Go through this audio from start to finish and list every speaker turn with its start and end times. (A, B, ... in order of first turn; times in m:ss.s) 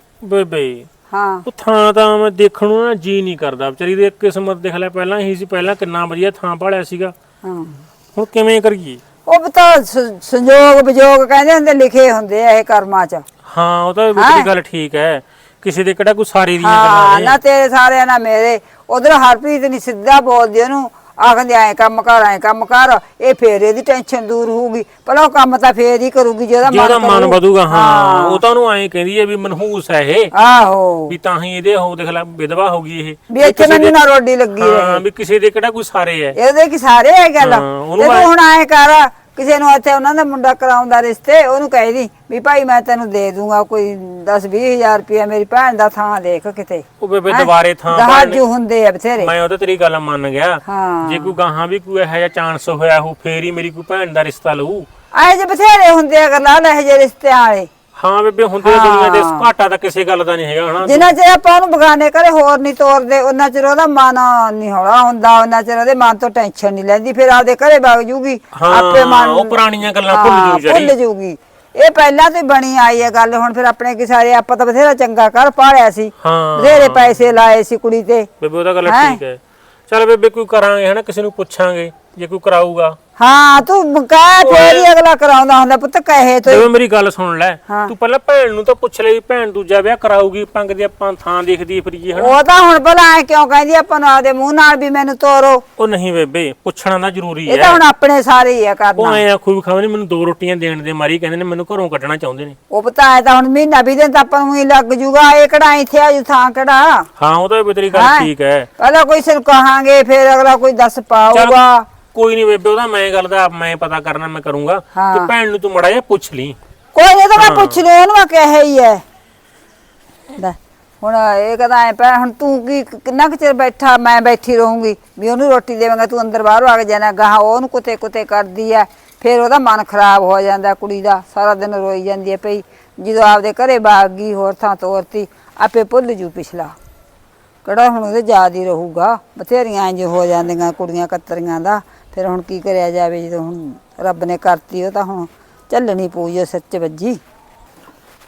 0:00.2-0:00.9 A
0:01.1-0:01.5 B
0:01.5-0:07.1 A
0:07.4-0:07.8 B
0:08.2-0:09.0 A
0:09.3-0:13.2 B
0:13.5-0:17.4 A
0:14.2-0:14.5 B
0:16.6-0:28.4 B
0:26.6-0:30.3 A
0:30.4-0:31.2 B
0:31.1-0:34.0 A
0:33.3-0:35.0 B
0:34.6-0:36.4 A
0:36.4-0:49.3 B
0:37.4-0:38.3 A
0:47.0-0:48.4 A
0:49.2-0:54.9 A
0:50.7-0:51.4 B
0:55.1-0:57.7 B
0:58.0-1:01.1 A
0:58.6-0:59.5 B
1:00.8-1:09.6 B
1:08.6-1:10.9 A
1:10.1-1:18.3 B
1:16.2-1:17.2 A
1:18.4-1:23.0 A
1:18.8-1:19.2 B
1:23.2-1:26.7 B
1:24.4-1:24.9 A
1:26.4-1:32.4 A
1:32.1-1:35.6 B
1:35.8-1:37.8 A
1:37.5-1:39.2 B
1:39.0-1:42.6 A
1:42.7-1:47.1 B
1:47.2-1:48.7 A
1:47.9-1:51.8 B
1:51.3-1:51.6 A
1:52.1-1:56.6 A
1:54.9-1:55.3 B
1:56.9-1:59.0 B
1:57.4-1:57.8 A
2:00.4-2:16.8 B
2:17.6-2:27.2 B